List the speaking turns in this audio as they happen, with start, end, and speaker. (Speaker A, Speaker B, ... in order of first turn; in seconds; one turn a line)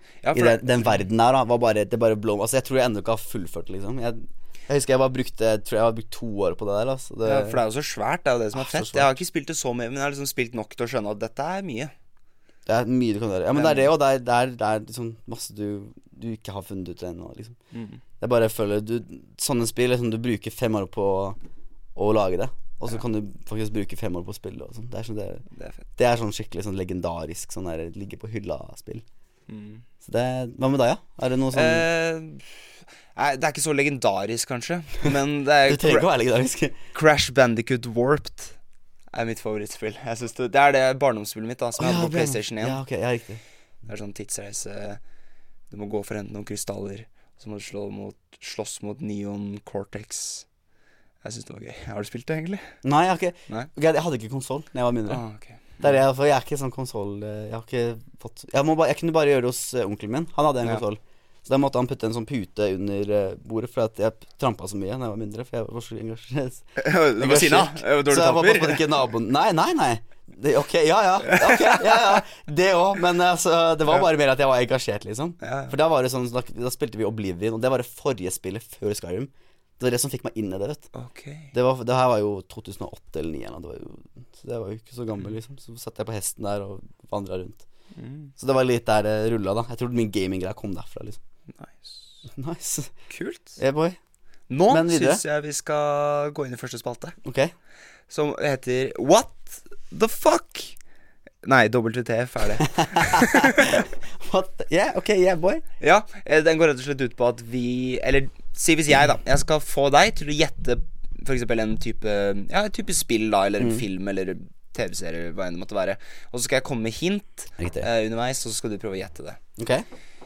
Speaker A: 0.2-1.0
Speaker B: 0.3-7.6
Speaker A: 7.2-11.9
Speaker B: 8.5-9.2
Speaker B: 12.7-17.6
Speaker A: 13.5-13.9
Speaker A: 17.7-18.0
Speaker B: 18.2-21.4
Speaker B: 21.9-29.0
Speaker A: 25.5-25.8
Speaker A: 29.5-29.8
Speaker B: 30.0-31.9
Speaker A: 31.5-36.1
Speaker B: 35.6-36.8
Speaker A: 36.9-38.5
Speaker A: 39.1-42.8
Speaker B: 41.8-43.4
Speaker A: 43.9-45.0
Speaker A: 45.7-50.5
Speaker A: 51.2-52.7
Speaker B: 52.8-55.2
Speaker A: 55.1-56.0
Speaker B: 55.8-80.9
Speaker A: 66.8-69.0
Speaker A: 71.2-72.2
Speaker A: 75.4-75.7
Speaker A: 80.9-81.5
Speaker B: 81.5-87.6
Speaker A: 87.9-88.3
Speaker B: 88.4-91.2
Speaker A: 91.5-92.2
Speaker B: 92.3-92.9
Speaker A: 93.1-93.6
Speaker B: 93.6-94.0
Speaker A: 94.5-97.2
Speaker B: 94.7-95.2
Speaker B: 97.2-97.5
Speaker A: 98.1-100.8
Speaker A: 101.4-103.8
Speaker B: 102.6-105.6
Speaker A: 105.8-119.4
Speaker B: 113.6-113.8
Speaker B: 117.6-117.9
Speaker B: 119.6-119.8